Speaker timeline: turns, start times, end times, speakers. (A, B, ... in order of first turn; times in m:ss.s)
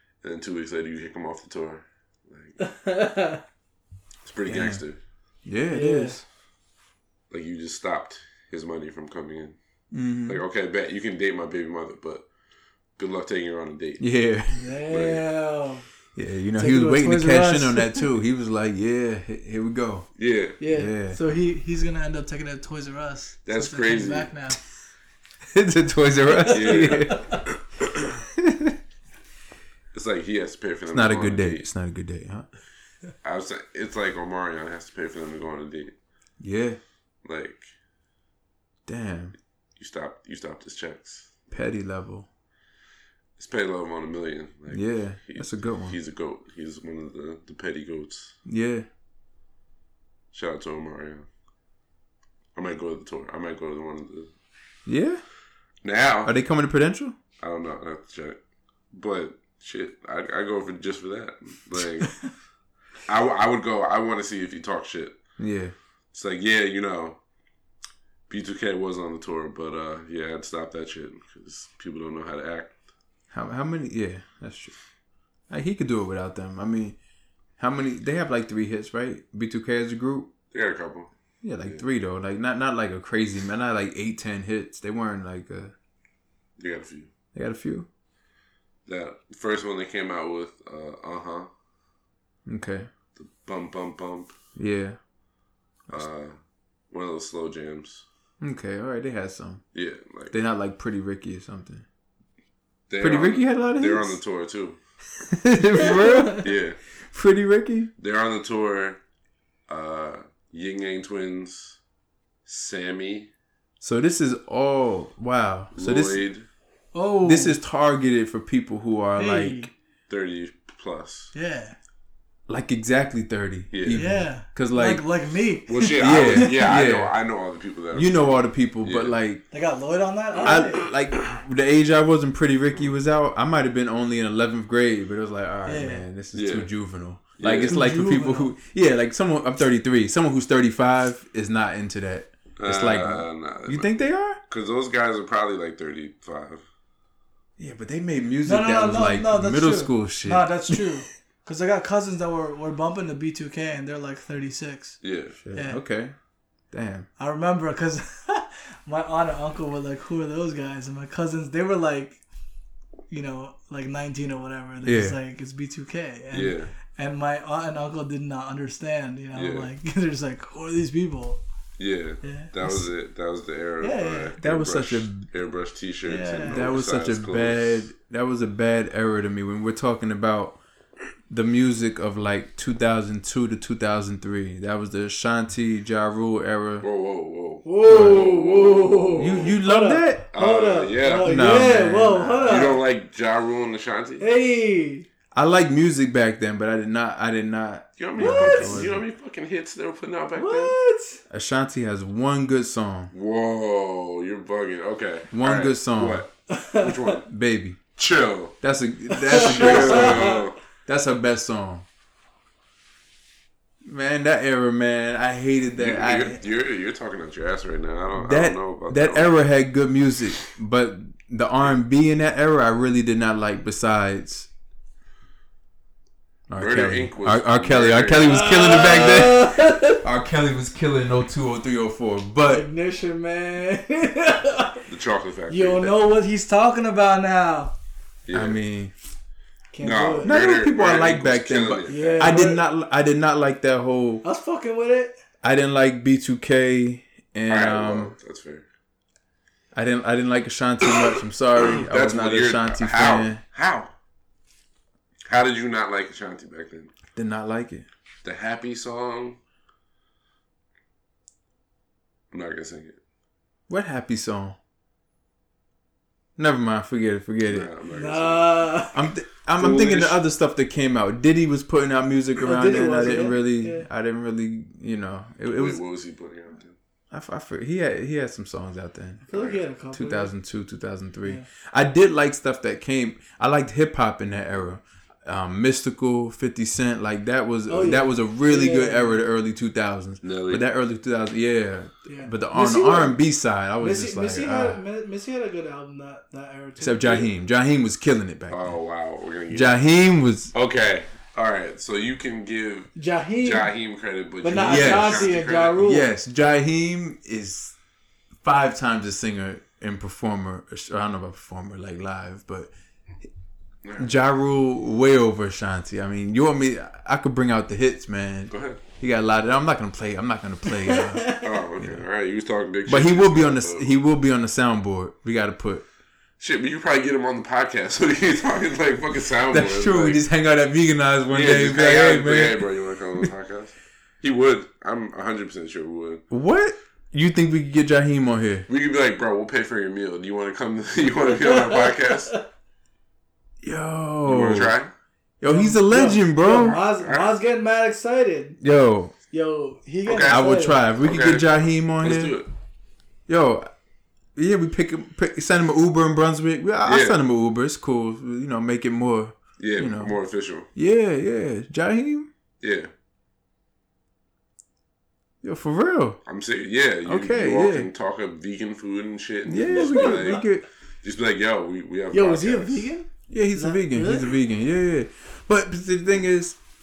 0:00.2-0:02.6 A
0:02.6-0:03.4 B
0:04.2-0:05.0 A
0:04.4-0:04.8 C
0:05.4-0:06.2 C
0:05.7-0:06.2 B
0:07.3-0:09.6 A
0:09.9-0:10.4 C
0:10.2-0:12.3 A
0:13.0-0:14.0 A
0:14.0-0:14.7 C
0:14.5-0:15.8 B
0:14.9-0:15.2 A
0:16.2-0:20.1 C
0:16.5-0:18.1 B
0:20.2-0:20.6 A
0:20.6-0:24.6 B
0:20.6-0:21.2 C
0:23.4-0:24.3 A
0:25.5-0:27.3 C
0:26.3-0:27.4 B
0:26.5-0:28.1 A
0:28.4-0:28.8 C
0:29.9-0:31.7 A
0:30.9-0:32.4 C
0:33.2-0:35.9 A
0:36.4-0:36.8 C
0:37.2-0:37.7 A
0:38.9-0:39.3 C
0:39.8-0:41.3 A
0:41.5-0:42.3 C
0:43.4-0:48.3 A
0:44.7-0:46.0 C
0:48.4-0:48.8 C
0:50.3-0:51.3 A
0:52.5-0:54.3 A
0:54.8-0:55.2 C
0:55.8-0:56.3 A
0:56.2-0:57.1 C
0:57.4-0:58.4 A
0:58.9-1:02.2 A
1:03.1-1:05.2 A
1:05.4-1:05.7 C
1:06.1-1:07.2 A
1:08.3-1:12.7 A
1:13.3-1:14.7 C
1:15.5-1:17.0 C
1:17.6-1:20.3 C
1:20.5-1:21.1 A
1:21.4-1:25.7 C
1:26.6-1:27.1 A
1:27.3-1:27.9 C
1:28.8-1:31.5 A
1:32.5-1:32.9 C
1:33.2-1:34.3 A
1:34.6-1:35.0 C
1:35.9-1:36.4 A
1:36.9-1:38.0 A
1:38.4-1:39.6 C
1:39.7-1:40.4 A
1:40.3-1:41.8 C
1:42.9-1:44.8 A
1:43.0-1:44.2 C
1:45.3-1:46.5 C
1:45.8-1:46.3 B
1:46.4-1:46.8 A
1:47.1-1:47.9 C
1:48.0-1:49.0 A
1:49.7-1:51.8 A
1:52.4-1:53.3 A
1:53.8-1:56.2 C
1:55.7-1:56.5 A
1:56.9-1:57.6 B
1:57.2-1:59.7 C
1:59.2-1:59.7 B
2:00.1-2:01.3 A
2:01.3-2:01.8 B
2:02.5-2:05.0 C
2:03.7-2:04.0 A
2:03.9-2:06.6 B
2:05.7-2:09.2 A
2:06.0-2:07.1 C
2:07.9-2:09.4 C
2:09.5-2:10.8 B
2:10.4-2:24.4 C
2:15.6-2:16.0 B
2:16.3-2:16.7 A
2:17.4-2:17.8 A
2:17.6-2:18.5 B
2:22.6-2:23.9 A
2:24.5-2:26.6 A
2:27.6-2:30.8 C
2:28.4-2:35.0 B
2:35.0-2:35.4 A
2:35.4-2:36.1 C
2:35.5-2:35.8 B
2:36.7-2:37.1 C
2:37.2-2:42.2 B
2:43.1-2:51.4 B
2:44.8-2:45.2 C
2:46.3-2:46.7 A
2:49.3-2:49.7 A
2:51.8-2:57.9 A
2:52.2-2:52.5 B
2:53.8-2:54.4 B
2:54.4-2:55.3 C
2:56.0-2:56.7 B
2:56.5-3:00.6 C
3:01.3-3:06.8 C
3:06.8-3:09.5 A
3:07.6-3:12.8 B
3:07.8-3:08.2 C
3:09.2-3:10.2 C
3:10.3-3:11.3 A
3:11.1-3:12.6 C
3:12.4-3:14.3 A
3:14.2-3:15.0 B
3:15.3-3:19.0 C
3:18.0-3:20.7 A
3:18.2-3:18.9 B
3:20.3-3:21.2 B
3:21.3-3:23.1 C
3:23.1-3:27.2 A
3:25.3-3:26.2 C
3:26.5-3:27.1 B
3:27.2-3:27.8 C
3:28.0-3:28.5 A
3:28.6-3:31.8 C
3:29.1-3:30.4 B
3:29.3-3:30.6 A
3:33.8-3:36.4 C
3:35.7-3:39.3 A
3:38.2-3:44.5 C
3:46.5-3:52.6 C
3:46.6-3:48.8 A
3:48.3-3:50.0 B
3:52.5-3:54.8 B
3:54.8-3:55.9 A
3:55.5-3:57.7 B
3:58.3-3:58.6 A
3:58.3-3:58.9 C
3:59.7-4:00.3 B
3:59.8-4:02.4 A
4:00.2-4:04.2 C
4:01.9-4:02.6 B
4:04.2-4:05.2 B
4:05.4-4:08.2 C
4:07.5-4:08.6 A
4:09.7-4:13.4 C
4:11.6-4:13.9 A
4:15.3-4:16.9 A
4:17.1-4:17.9 C
4:18.2-4:19.4 A
4:22.3-4:23.0 A
4:23.7-4:24.6 C
4:26.4-4:27.7 C
4:27.4-4:28.7 A
4:27.9-4:29.1 B
4:28.9-4:35.8 C
4:29.6-4:30.2 A
4:32.4-4:33.9 B
4:35.5-4:36.8 A
4:37.1-4:39.3 C
4:39.3-4:40.3 B
4:39.3-4:39.6 A
4:39.9-4:54.8 C
4:47.7-4:49.2 B
4:50.2-4:50.6 A
4:52.0-4:53.2 B
4:53.8-4:57.0 B
4:56.8-4:58.7 C
4:57.0-4:57.3 A
4:58.5-4:59.8 A
4:59.5-5:00.5 C
5:00.5-5:05.8 A
5:02.9-5:03.7 B
5:04.4-5:06.1 B
5:04.6-5:07.8 C
5:08.4-5:12.7 C
5:13.8-5:14.1 A
5:14.0-5:22.0 C
5:18.5-5:18.8 A
5:21.0-5:21.4 B
5:21.4-5:23.9 A
5:22.8-5:25.8 C
5:26.4-5:30.2 A
5:29.5-5:33.3 C
5:31.3-5:36.2 A
5:36.3-5:38.7 C
5:38.7-5:42.3 A
5:41.4-5:42.4 B
5:43.6-5:44.8 C
5:44.2-5:44.9 A
5:45.4-5:46.8 C
5:45.4-5:48.6 B
5:47.0-5:47.3 A
5:48.6-5:49.1 C
5:49.3-5:50.9 B
5:50.0-5:50.4 A
5:50.3-5:52.4 C
5:51.0-5:52.5 A
5:53.3-5:53.7 C
5:54.4-6:00.2 C
5:56.8-5:57.2 A
5:59.6-6:00.7 A
6:00.7-6:02.3 C
6:02.6-6:02.9 A
6:05.4-6:06.2 C
6:06.2-6:10.5 A
6:07.0-6:07.9 C
6:09.4-6:10.7 C
6:09.9-6:10.2 B
6:11.0-6:12.9 A
6:12.1-6:14.3 B
6:13.3-6:16.6 C